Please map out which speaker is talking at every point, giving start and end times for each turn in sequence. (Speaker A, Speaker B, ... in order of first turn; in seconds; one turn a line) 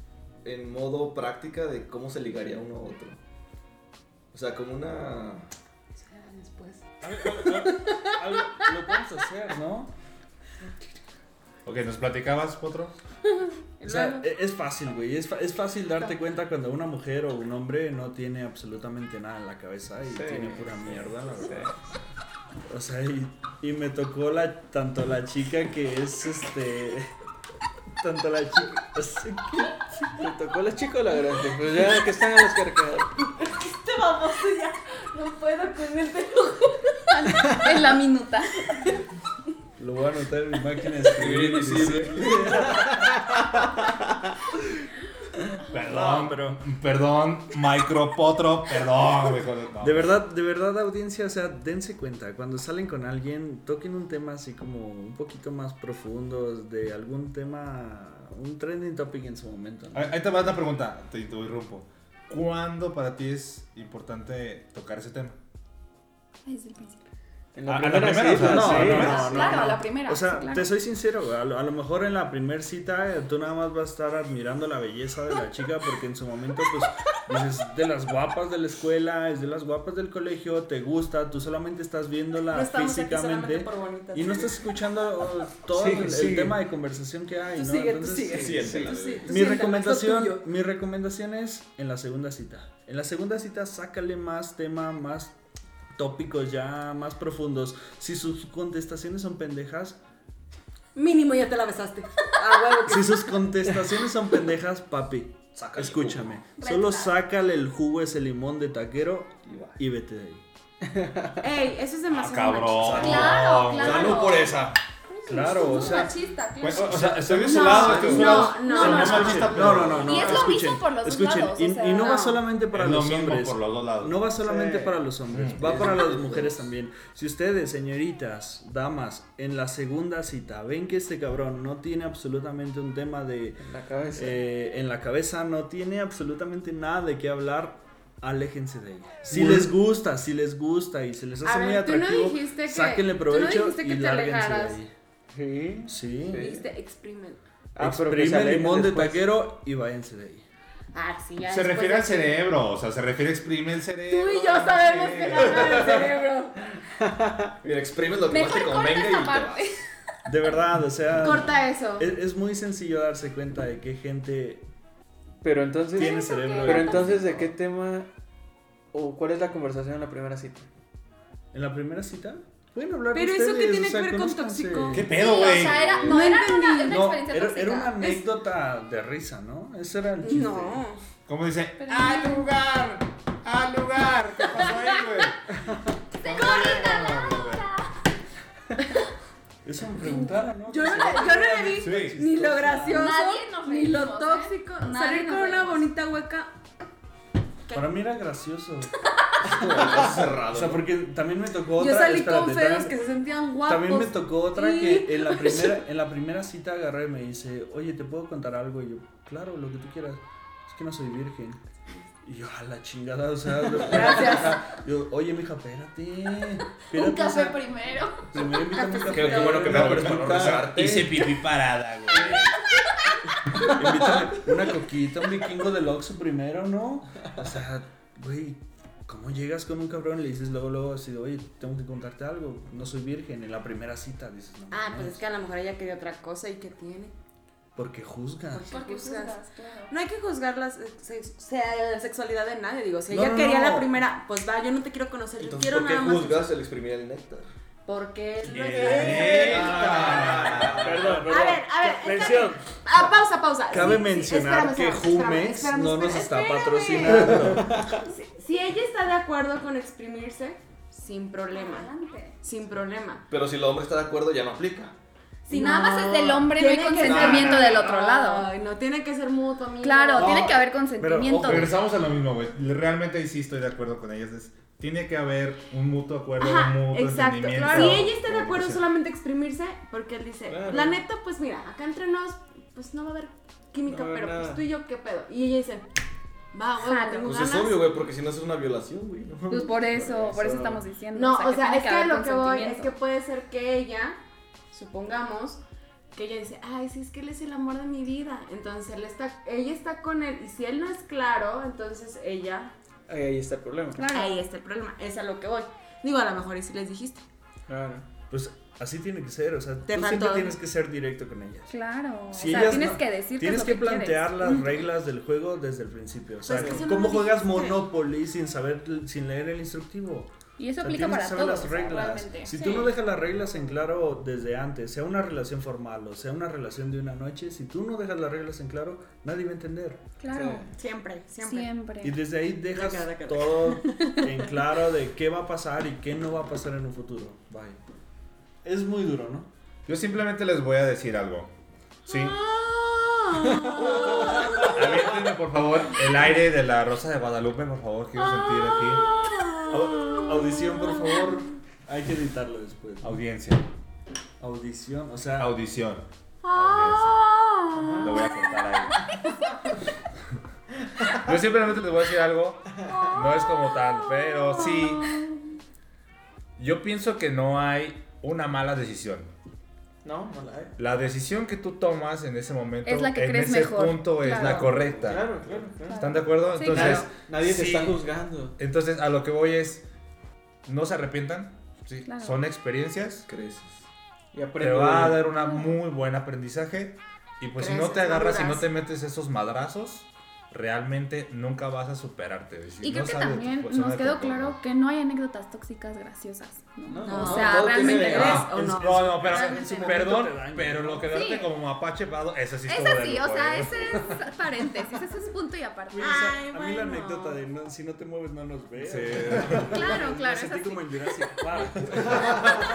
Speaker A: 0.4-3.2
Speaker A: 4.3-5.5
Speaker B: 6.0-8.8
Speaker C: 7.0-9.9
Speaker D: 11.6-13.0
Speaker B: 13.3-14.3
Speaker C: 13.8-21.7
Speaker A: 20.1-20.6
Speaker A: 21.4-21.7
Speaker C: 22.7-27.1
Speaker C: 28.0-30.2
Speaker E: 30.2-33.4
Speaker B: 33.4-37.5
Speaker F: 37.1-38.7
Speaker B: 38.7-39.0
Speaker C: 39.8-42.8
Speaker A: 41.1-42.9
Speaker D: 45.6-50.2
Speaker C: 45.8-46.6
Speaker C: 49.8-60.1
Speaker D: 59.9-65.4
Speaker F: 66.4-67.0
Speaker E: 67.5-69.2
Speaker D: 67.7-69.8
Speaker C: 68.2-95.3
Speaker F: 68.9-70.7
Speaker B: 82.5-84.6
Speaker E: 85.7-86.6
Speaker B: 87.5-90.4
Speaker E: 88.3-88.7
Speaker A: 88.4-89.3
Speaker C: 96.0-100.0
Speaker B: 100.9-103.4
Speaker C: 102.8-110.4
Speaker A: 105.5-106.3
Speaker F: 106.6-107.1
Speaker A: 109.4-109.8
Speaker E: 110.9-111.3
Speaker B: 111.4-113.2
Speaker D: 112.1-114.4
Speaker A: 112.8-114.8
Speaker F: 112.9-114.6
Speaker C: 113.2-113.4
Speaker C: 115.2-116.2
Speaker F: 115.5-116.9
Speaker B: 115.5-115.8
Speaker D: 116.6-120.6
Speaker A: 116.8-120.3
Speaker B: 117.4-119.8
Speaker C: 117.9-144.9
Speaker F: 118.6-119.4
Speaker F: 120.0-122.3
Speaker B: 122.0-122.4
Speaker D: 122.7-124.2
Speaker E: 124.4-125.1
Speaker D: 125.3-125.8
Speaker E: 125.6-126.7
Speaker A: 125.7-126.2
Speaker E: 133.6-134.4
Speaker E: 139.3-139.7
Speaker B: 141.4-144.8
Speaker E: 145.3-146.6
Speaker C: 145.9-146.7
Speaker B: 146.3-147.4
Speaker E: 147.7-149.3
Speaker C: 147.8-150.4
Speaker B: 150.9-152.4
Speaker D: 151.4-156.1
Speaker B: 154.1-156.7
Speaker E: 157.0-157.5
Speaker A: 157.6-159.7
Speaker F: 158.3-159.8
Speaker C: 160.2-164.7
Speaker B: 161.1-162.1
Speaker E: 165.4-168.1
Speaker C: 165.9-167.5
Speaker F: 166.0-167.1
Speaker E: 168.9-170.7
Speaker C: 171.5-175.2
Speaker B: 173.1-175.1
Speaker D: 174.9-176.1
Speaker F: 175.1-178.2
Speaker A: 175.6-176.3
Speaker B: 176.0-177.2
Speaker C: 176.9-180.8
Speaker B: 180.2-181.0
Speaker D: 181.3-185.4
Speaker F: 181.8-182.5
Speaker F: 186.1-187.9
Speaker D: 186.2-187.7
Speaker C: 189.6-193.0
Speaker B: 190.1-196.5
Speaker D: 191.8-192.2
Speaker F: 192.9-195.9
Speaker C: 197.7-203.0
Speaker A: 199.4-200.9
Speaker B: 201.7-205.8
Speaker C: 203.6-211.6
Speaker C: 212.2-217.7
Speaker B: 213.8-214.6
Speaker F: 214.2-214.4
Speaker F: 216.9-218.6
Speaker C: 218.3-220.5
Speaker B: 218.7-219.6
Speaker D: 219.1-222.6
Speaker A: 219.1-221.2
Speaker E: 219.6-220.7
Speaker C: 223.6-235.2
Speaker B: 234.7-237.1
Speaker C: 237.8-238.7
Speaker B: 238.5-239.4
Speaker F: 238.7-239.9
Speaker B: 239.9-246.5
Speaker C: 243.1-243.9
Speaker A: 245.4-247.5
Speaker B: 247.8-249.9
Speaker C: 248.4-252.3
Speaker E: 248.8-252.7
Speaker D: 248.9-250.9
Speaker A: 248.9-251.1
Speaker B: 250.9-257.5
Speaker C: 253.7-258.0
Speaker E: 257.3-257.9
Speaker B: 258.1-263.3
Speaker F: 261.5-262.4
Speaker A: 263.3-264.9
Speaker B: 265.4-270.4
Speaker F: 265.5-268.5
Speaker A: 267.0-267.9
Speaker F: 269.8-271.8
Speaker A: 270.2-270.5
Speaker C: 271.0-271.4
Speaker D: 271.3-278.8
Speaker B: 276.4-285.9
Speaker E: 280.5-281.0
Speaker E: 283.8-284.6
Speaker B: 286.5-287.8
Speaker F: 286.8-287.4
Speaker A: 287.2-290.8
Speaker F: 289.5-292.9
Speaker B: 291.1-294.2
Speaker B: 294.7-295.6
Speaker B: 296.1-302.7
Speaker E: 303.1-304.0
Speaker B: 303.9-307.2
Speaker F: 304.0-304.3
Speaker E: 307.7-308.1
Speaker C: 308.3-311.7
Speaker B: 309.9-310.6
Speaker F: 311.7-314.7
Speaker C: 312.3-330.0
Speaker B: 316.4-317.9
Speaker E: 316.5-316.9
Speaker F: 320.6-322.5
Speaker B: 322.5-322.9
Speaker F: 330.2-330.7
Speaker E: 330.3-330.7
Speaker B: 330.7-331.8
Speaker F: 331.4-332.2
Speaker C: 332.0-337.8
Speaker B: 332.7-334.6
Speaker C: 338.6-339.5
Speaker D: 339.9-341.5
Speaker D: 342.1-342.4
Speaker B: 342.1-344.8
Speaker E: 343.6-344.6
Speaker D: 344.6-349.1
Speaker B: 348.2-351.3
Speaker C: 349.7-353.2
Speaker D: 353.0-353.7
Speaker C: 354.4-355.5
Speaker D: 355.4-357.2
Speaker B: 356.4-358.7
Speaker E: 357.7-358.2
Speaker D: 358.0-359.0
Speaker D: 361.1-365.2
Speaker B: 364.0-365.3
Speaker D: 366.6-369.3
Speaker E: 370.0-370.8
Speaker D: 370.8-378.0
Speaker F: 372.8-374.7
Speaker E: 374.4-378.6
Speaker F: 375.9-377.1
Speaker D: 378.6-379.8
Speaker D: 380.6-383.3
Speaker F: 382.1-382.4
Speaker A: 383.3-383.9
Speaker E: 384.3-385.2
Speaker D: 384.6-394.6
Speaker F: 385.4-385.8
Speaker B: 387.6-388.6
Speaker F: 392.8-398.5
Speaker E: 396.9-398.4
Speaker B: 397.0-400.1
Speaker D: 398.1-404.3
Speaker C: 398.3-401.2
Speaker F: 401.1-401.5
Speaker F: 402.7-406.3
Speaker C: 405.9-412.6
Speaker B: 406.0-407.4
Speaker D: 408.8-409.7
Speaker F: 409.7-411.2